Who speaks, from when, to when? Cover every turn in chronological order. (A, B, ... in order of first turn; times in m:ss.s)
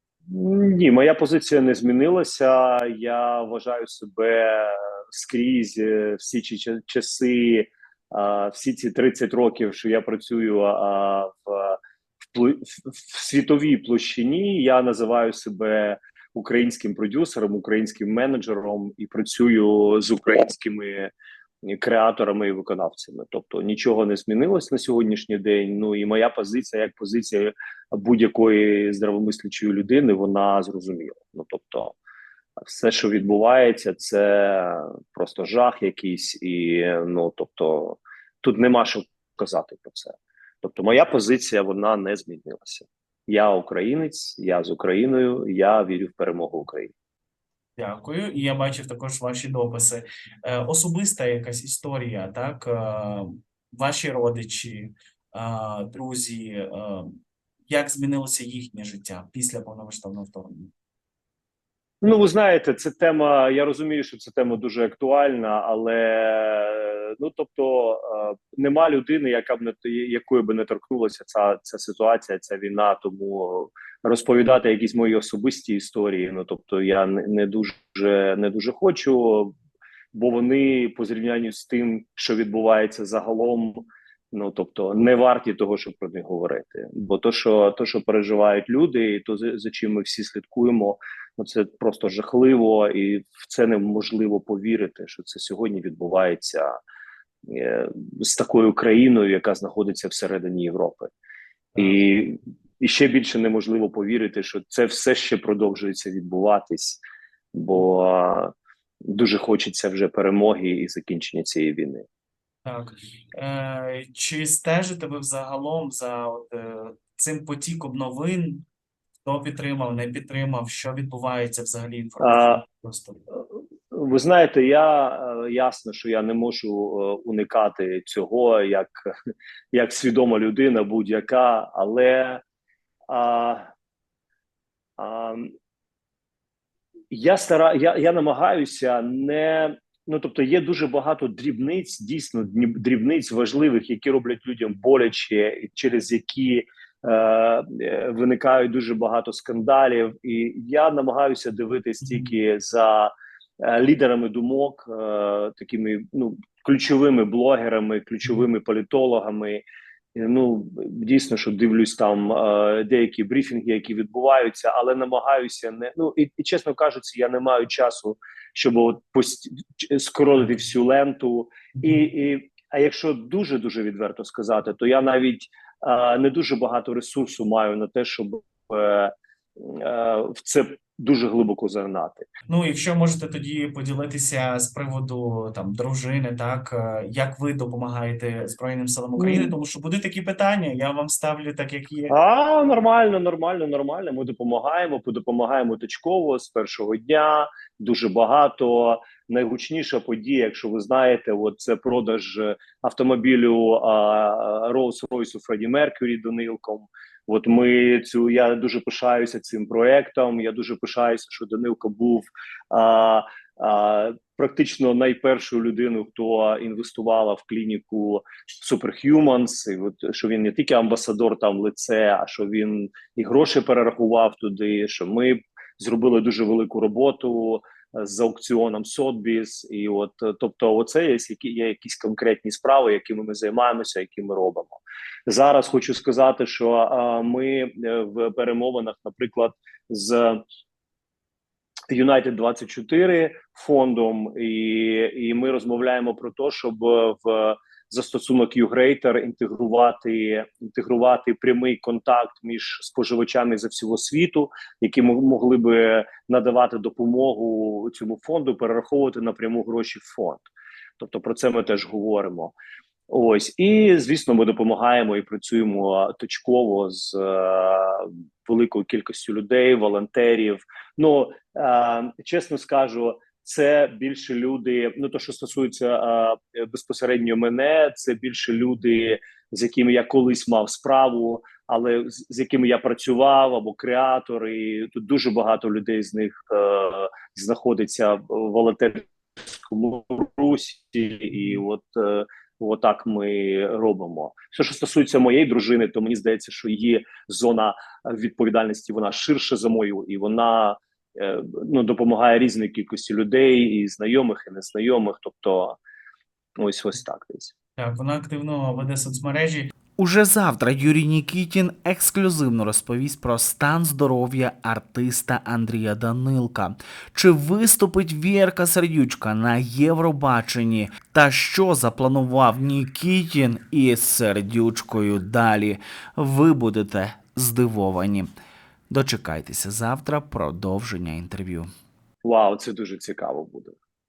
0:00.3-0:11.8 A
0:12.3-0:21.1 A
0:21.6-0:32.0 A
0:32.6-0:46.9 A
0:47.8-0:57.2 B
0:57.7-1:00.7 B
1:02.0-1:19.6 A
1:20.1-1:36.7 A
1:37.5-1:41.1 A
1:41.7-1:42.0 B
1:41.8-1:47.0 A
1:47.5-1:48.5 A
1:49.0-1:52.0 A
1:52.6-1:58.6 B
1:59.2-2:03.2 B
2:02.2-2:02.6 A
2:03.4-2:09.1 A
2:09.7-2:12.4 A
2:13.1-2:13.7 A
2:15.0-2:15.5 A
2:17.1-2:39.6 A
2:32.0-2:32.3 B
2:40.2-3:02.3 A
3:02.5-3:12.1 B
3:09.2-3:09.6 A
3:12.1-4:00.4 A
4:01.9-4:20.5 A
4:21.0-4:22.6 A
4:23.1-5:05.8 A
5:06.6-5:07.5 A
5:07.8-5:09.7 B
5:10.0-5:28.3 C
5:28.9-5:31.7 C
5:32.2-5:33.8 A